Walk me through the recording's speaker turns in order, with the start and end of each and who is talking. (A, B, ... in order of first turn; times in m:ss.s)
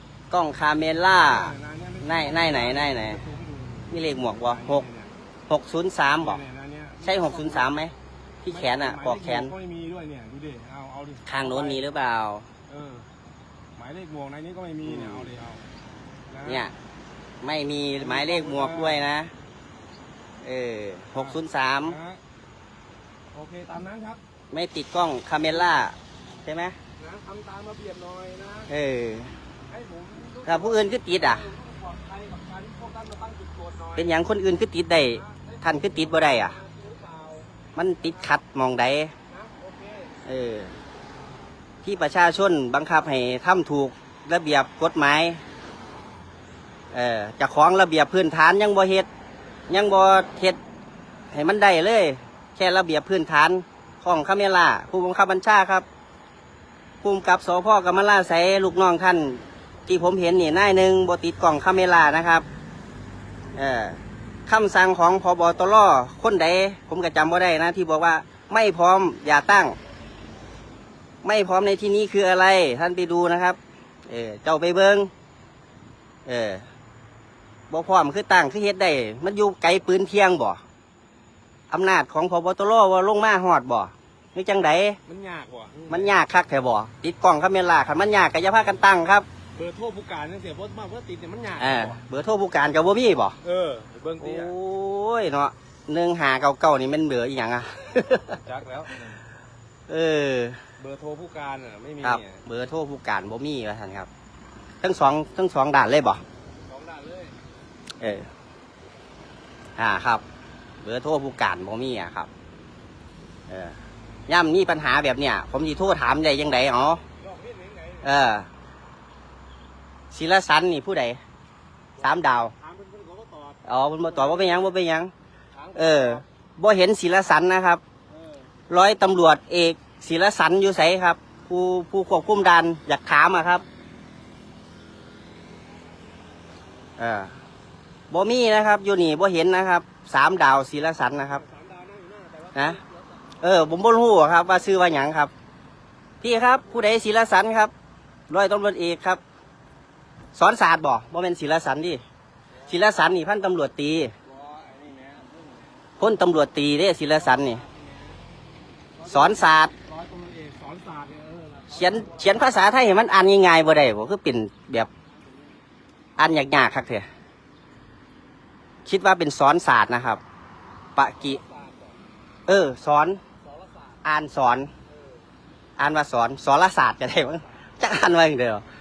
0:00.3-0:03.2 A
0:01.2-0:05.1 B
0:03.9-0:04.9 A
0:05.5-0:06.4 A
0:06.2-0:07.7 B
0:07.0-0:09.5 A
0:08.5-0:11.8 B
0:11.3-0:12.5 A
0:12.7-0:13.1 B
0:13.8-0:15.6 B
0:14.9-0:15.3 A
0:16.3-0:16.6 B
0:16.5-0:16.7 A
0:17.4-0:19.3 A
0:18.0-0:19.0 B
0:20.4-0:22.0 A
0:21.2-0:22.2 B
0:23.3-0:24.2 B
0:24.5-0:26.8 A
0:27.0-0:28.7 B
0:28.7-0:29.4 A
0:29.7-0:34.2 B
0:30.5-0:31.5 A
0:34.0-0:36.6 A
0:35.1-0:38.3 B
0:37.8-0:39.1 A
0:39.3-0:40.2 B
0:40.3-0:40.8 A
0:41.8-0:45.4 A
0:46.9-0:49.1 A
0:49.7-0:50.6 A
0:51.3-0:55.9 A
0:57.0-1:02.4 A
1:03.6-1:09.8 A
1:11.2-1:15.1 A
1:16.3-1:16.7 A
1:17.7-1:20.6 A
1:21.7-1:25.0 A
1:25.1-1:26.1 B
1:25.9-1:29.3 A
1:29.6-1:32.0 B
1:31.6-1:33.4 A
1:33.4-1:34.5 B
1:34.2-1:38.4 A
1:38.4-1:39.2 B
1:39.9-1:40.6 A
1:40.8-1:42.4 B
1:42.0-1:44.1 A
1:44.8-1:46.2 A
1:46.7-1:47.4 B
1:48.0-1:48.3 A
1:49.8-1:50.2 A
1:50.8-1:52.3 A
1:53.5-1:57.0 A
1:57.2-1:58.1 B
1:58.0-1:58.5 A
2:00.1-2:01.2 A
2:02.0-2:04.7 B
2:02.0-2:02.5 A
2:03.6-2:05.1 A
2:05.6-2:06.2 B
2:05.8-2:07.8 A
2:08.1-2:08.5 B
2:08.7-2:13.6 A
2:17.0-2:17.4 A
2:18.1-2:21.4 A
2:21.3-2:23.2 B
2:23.4-2:25.3 A
2:26.2-2:27.7 A
2:28.3-2:29.2 A
2:30.4-2:32.0 A
2:32.7-2:34.1 A
2:34.2-2:35.9 B
2:36.0-2:37.6 A
2:37.2-2:38.2 B
2:39.0-2:42.3 B
2:39.1-2:39.7 A
2:41.7-2:44.9 A
2:46.2-2:47.1 A
2:48.9-2:50.2 A
2:51.0-2:51.4 A
2:51.2-2:52.0 B
2:52.5-2:53.2 A
2:53.5-2:53.8 B
2:54.0-2:54.7 A
2:54.9-2:55.2 B
2:55.8-2:58.6 A